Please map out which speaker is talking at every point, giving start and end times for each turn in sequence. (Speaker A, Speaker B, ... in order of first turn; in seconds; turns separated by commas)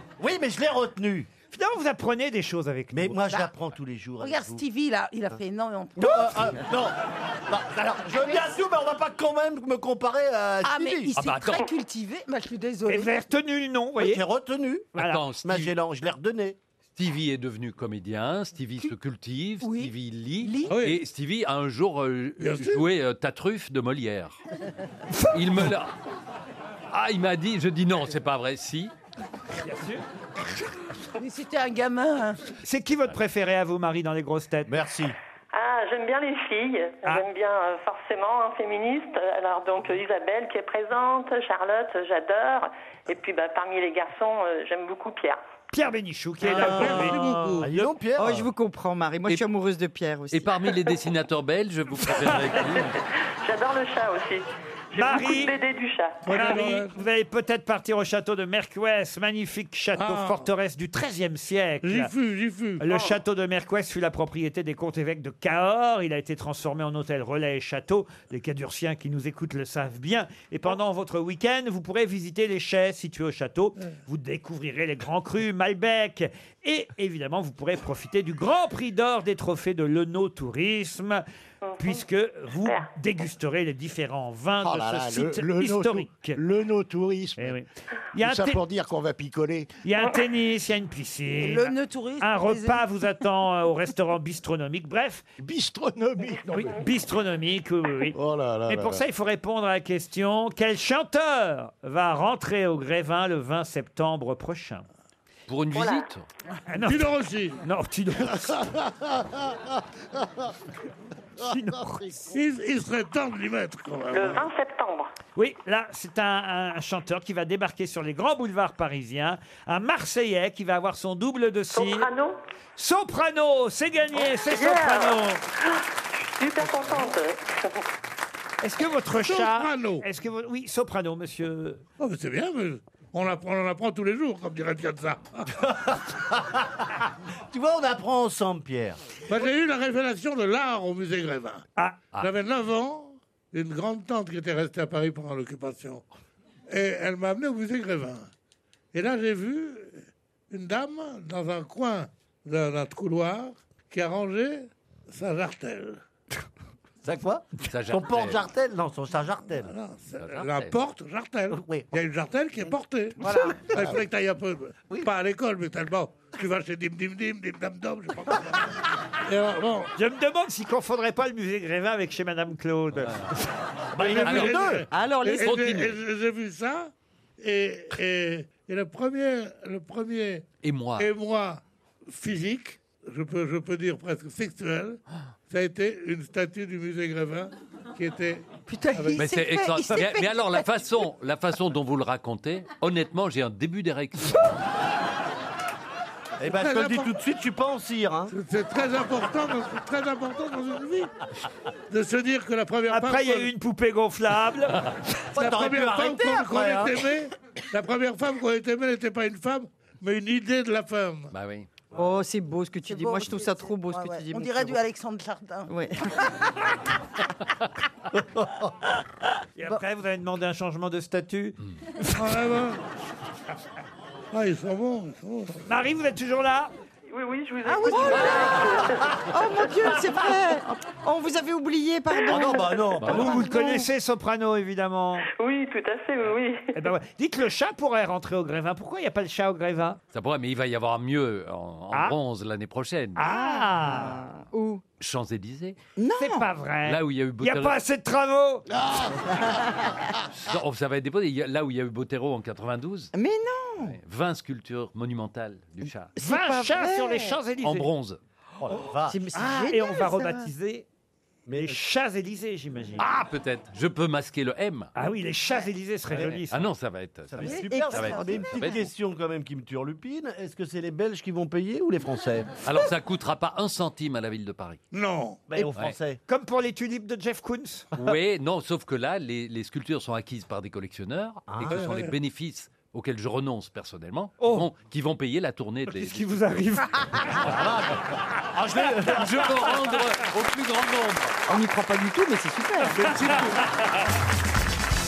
Speaker A: 0.2-1.3, Speaker B: 1.5-3.2, Speaker A: 2.9-4.6, Speaker C: 4.2-6.6, Speaker A: 6.0-7.0, Speaker A: 7.5-11.1, Speaker C: 8.2-8.4, Speaker C: 10.6-13.1, Speaker D: 11.2-11.7, Speaker B: 12.9-14.2, Speaker A: 14.0-16.6, Speaker B: 14.9-15.3, Speaker D: 14.9-15.7, Speaker D: 16.9-24.4, Speaker C: 19.6-20.8, Speaker E: 20.7-21.0, Speaker E: 22.4-22.8, Speaker D: 25.3-25.9, Speaker D: 26.9-28.9, Speaker B: 29.6-30.0, Speaker C: 31.2-32.5, Speaker B: 32.6-34.8, Speaker A: 34.7-35.1, Speaker F: 35.5-45.4, Speaker B: 45.7-47.9, Speaker A: 46.4-48.5, Speaker E: 46.6-47.7, Speaker G: 48.2-50.5, Speaker D: 50.3-53.0, Speaker F: 53.4-56.6, Speaker B: 54.9-55.5, Speaker E: 56.2-57.0, Speaker B: 56.3-62.1, Speaker E: 60.0-60.4, Speaker E: 61.8-62.8, Speaker B: 62.8-81.2, Speaker F: 81.6-82.0, Speaker B: 81.8-86.4, Speaker H: 84.6-87.6, Speaker B: 87.4-88.6, Speaker H: 88.2-89.7, Speaker B: 89.8-95.2, Speaker C: 91.4-92.8, Speaker H: 95.4-96.8, Speaker B: 96.5-98.2, Speaker H: 98.1-99.0, Speaker B: 98.7-104.8, Speaker D: 105.5-106.2, Speaker B: 106.7-108.7, Speaker E: 106.8-107.6, Speaker B: 111.4-112.3, Speaker E: 112.3-114.4, Speaker F: 114.1-115.1, Speaker B: 115.3-122.1, Speaker F: 121.7-122.4, Speaker B: 122.8-125.4, Speaker F: 124.5-127.8, Speaker B: 128.6-131.8, Speaker E: 129.2-130.0, Speaker E: 132.0-135.6, Speaker A: 135.5-136.9, Speaker A: 137.5-139.0, Speaker E: 139.3-141.6, Speaker B: 141.8-142.0, Speaker E: 142.2-146.0, Speaker E: 146.7-148.3, Speaker E: 148.9-156.0, Speaker A: 157.0-159.7, Speaker D: 157.7-158.4, Speaker E: 159.6-168.6, Speaker D: 160.2-160.8, Speaker A: 161.5-161.9, Speaker A: 163.2-163.9, Speaker E: 169.2-169.9, Speaker B: 170.0-173.4, Speaker D: 172.9-173.3, Speaker A: 173.9-174.9, Speaker E: 174.0-180.4, Speaker D: 174.2-174.6, Speaker G: 174.9-175.7, Speaker D: 175.4-175.9, Speaker D: 180.6-181.1, Speaker E: 181.0-189.2, Speaker C: 188.7-191.0, Speaker D: 189.2-194.5, Speaker A: 196.4-198.3, Speaker E: 196.4-197.1, Speaker E: 198.3-201.1, Speaker E: 201.9-203.5, Speaker B: 202.9-204.9, Speaker A: 205.3-207.1, Speaker E: 205.3-211.3, Speaker D: 211.3-211.7, Speaker G: 211.9-214.8, Speaker C: 212.8-216.3, Speaker G: 215.7-216.2, Speaker B: 219.6-222.4, Speaker E: 222.2-222.8, Speaker E: 224.3-225.6, Speaker B: 225.7-226.7, Speaker F: 227.1-229.2, Speaker C: 227.7-228.6, Speaker G: 227.9-228.6, Speaker A: 228.1-228.8, Speaker G: 229.3-233.8, Speaker A: 229.9-230.3, Speaker A: 232.3-233.5, Speaker B: 233.1-235.3, Speaker F: 235.4-236.8, Speaker B: 236.8-240.0, Speaker D: 240.1-243.2, Speaker B: 243.2-244.2, Speaker G: 243.2-244.8, Speaker D: 245.0-245.8, Speaker G: 246.0-246.5, Speaker B: 246.2-248.7, Speaker D: 246.8-247.8, Speaker H: 248.7-249.6, Speaker G: 249.3-249.9, Speaker D: 250.3-253.1, Speaker G: 253.1-253.9, Speaker D: 253.9-256.1, Speaker G: 256.1-257.4, Speaker B: 256.1-257.9, Speaker D: 257.6-258.2, Speaker A: 258.6-259.2, Speaker G: 259.1-260.4, Speaker B: 259.4-260.8, Speaker C: 259.4-259.9, Speaker A: 261.4-261.8, Speaker B: 261.6-263.1, Speaker D: 263.0-264.9, Speaker B: 264.9-266.7, Speaker A: 266.1-266.4, Speaker D: 266.1-268.9, Speaker A: 267.3-272.5, Speaker G: 267.4-268.8, Speaker D: 272.6-274.8, Speaker E: 274.9-275.4, Speaker A: 275.5-276.2, Speaker B: 276.3-277.9, Speaker D: 277.9-286.4, Speaker A: 281.5-282.1, Speaker B: 284.4-284.7, Speaker B: 285.9-287.6, Speaker A: 287.4-289.7, Speaker D: 289.0-291.4, Speaker G: 291.5-293.4, Speaker B: 293.0-293.6, Speaker E: 293.1-293.4